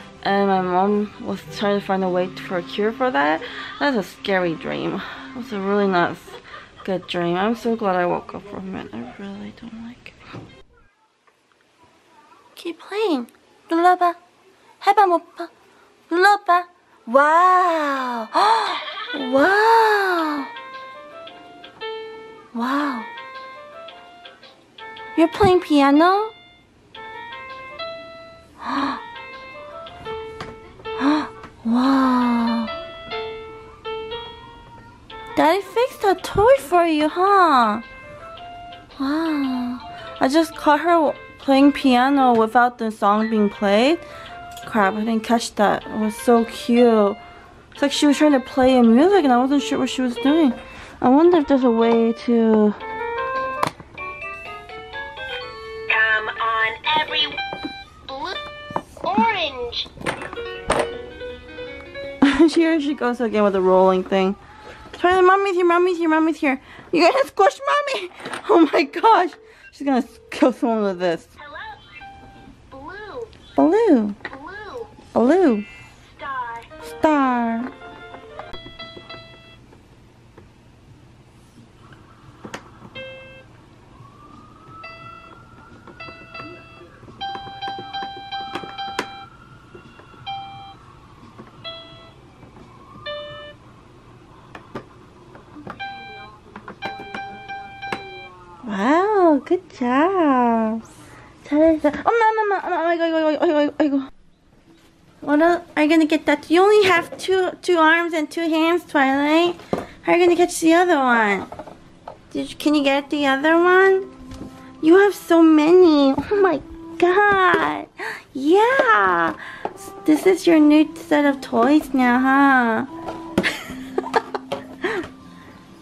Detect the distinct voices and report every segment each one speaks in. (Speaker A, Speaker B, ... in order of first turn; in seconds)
Speaker A: 0.2-10.2, 12.5-14.2, 14.8-15.5, 16.1-20.5, 22.5-23.1, 25.1-26.3, 28.6-29.0, 31.0-32.7, 35.3-37.8, 39.0-44.0, 44.6-47.2, 47.7-52.8, 62.2-64.4, 64.9-71.3, 73.5-74.2, 75.1-75.7, 76.8-77.7, 98.6-100.9, 101.4-104.1, 105.2-111.5, 112.3-114.1, 114.8-122.9
Speaker B: 55.9-57.4, 58.1-58.4, 59.0-59.9, 71.4-71.8, 72.7-73.3, 74.3-75.0, 76.0-76.7